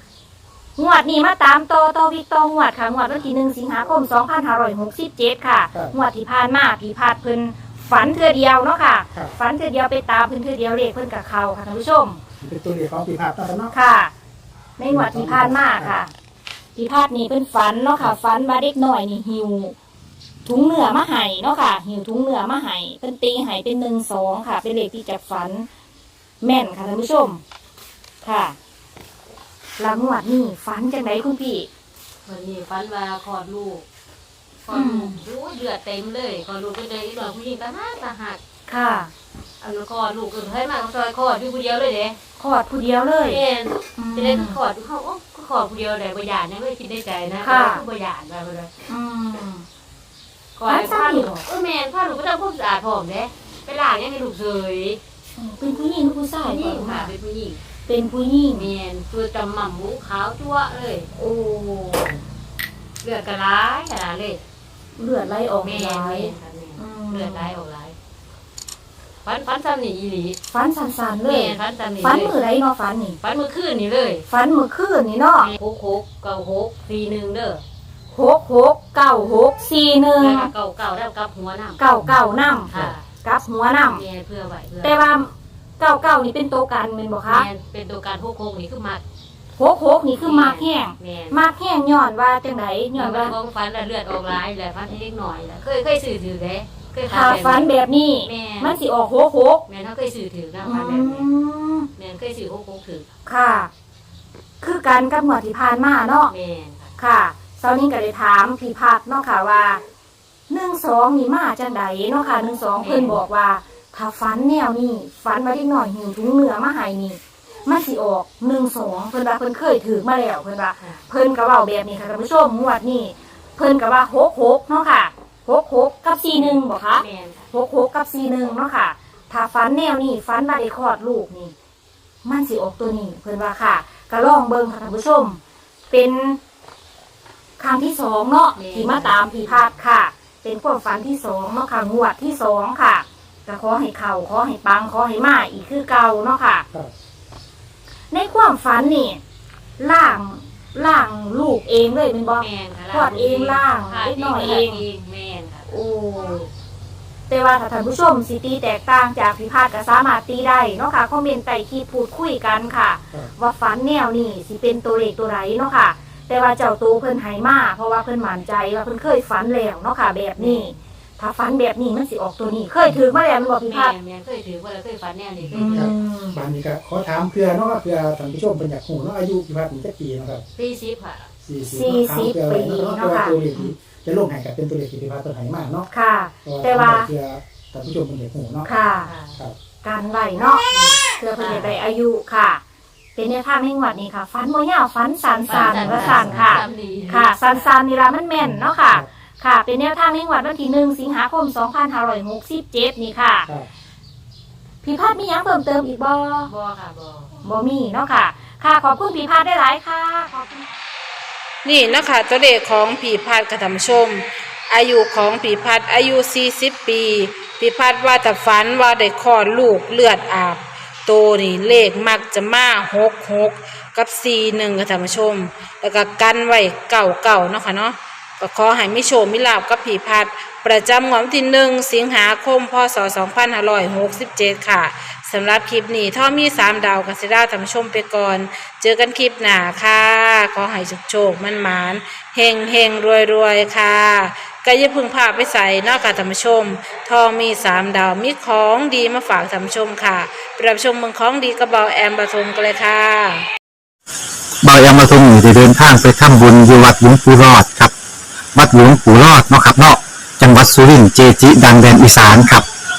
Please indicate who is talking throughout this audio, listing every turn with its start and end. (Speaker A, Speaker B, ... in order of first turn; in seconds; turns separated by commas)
Speaker A: 0.8-12.2, Speaker B: 12.4-13.7, Speaker A: 13.7-14.1, Speaker A: 14.8-16.1, Speaker B: 14.9-15.8, Speaker A: 16.8-19.7, Speaker A: 20.4-25.7, Speaker A: 26.4-27.4, Speaker A: 28.2-28.6, Speaker A: 29.8-31.7, Speaker C: 32.2-33.9, Speaker C: 34.6-38.4, Speaker A: 34.7-35.2, Speaker A: 38.7-39.1, Speaker C: 39.6-42.2, Speaker A: 42.4-43.4, Speaker C: 43.2-48.7, Speaker A: 44.0-44.6, Speaker A: 47.4-47.8, Speaker A: 48.9-49.7, Speaker C: 50.6-55.0, Speaker A: 50.7-51.4, Speaker A: 55.4-57.1, Speaker C: 56.4-57.6, Speaker A: 57.9-58.7, Speaker C: 58.5-61.1, Speaker A: 61.2-62.2, Speaker C: 63.0-64.4, Speaker A: 65.0-67.5, Speaker C: 65.6-68.0, Speaker C: 69.2-70.4, Speaker A: 70.5-73.2, Speaker C: 71.2-72.3, Speaker C: 73.2-74.2, Speaker A: 74.3-75.5, Speaker C: 75.4-77.6, Speaker A: 78.1-80.5, Speaker C: 80.2-82.1, Speaker A: 81.8-84.0, Speaker C: 82.7-83.0, Speaker C: 83.9-85.0, Speaker A: 84.8-87.5, Speaker C: 87.3-89.0, Speaker A: 89.6-93.3, Speaker C: 90.2-91.4, Speaker C: 93.0-97.7, Speaker A: 97.1-99.7, Speaker C: 98.2-98.8, Speaker C: 99.7-101.3, Speaker A: 100.6-101.9, Speaker C: 102.0-103.1, Speaker A: 103.3-103.7, Speaker A: 104.6-106.3, Speaker C: 106.3-106.9, Speaker A: 107.0-109.8, Speaker A: 110.5-131.5, Speaker C: 112.8-113.2, Speaker C: 126.3-127.5, Speaker A: 132.2-136.4, Speaker A: 137.6-146.7, Speaker C: 138.6-139.7, Speaker A: 148.1-149.2, Speaker A: 149.8-154.8, Speaker C: 152.4-155.7, Speaker A: 155.7-156.5, Speaker A: 157.3-173.9, Speaker C: 170.4-170.8, Speaker C: 173.7-175.8, Speaker A: 175.5-176.4, Speaker B: 175.7-180.4, Speaker C: 180.6-181.3, Speaker B: 181.5-185.9, Speaker A: 181.7-183.7, Speaker A: 185.9-187.1, Speaker B: 186.5-188.7, Speaker A: 188.7-189.1, Speaker C: 189.0-189.4, Speaker A: 189.8-190.6, Speaker C: 190.7-191.7, Speaker A: 191.2-192.6, Speaker A: 193.2-203.5, Speaker C: 195.5-197.7, Speaker A: 204.8-206.5, Speaker C: 206.5-207.3, Speaker A: 207.4-210.7, Speaker D: 211.6-253.4, Speaker E: 254.6-257.9, Speaker E: 258.6-262.7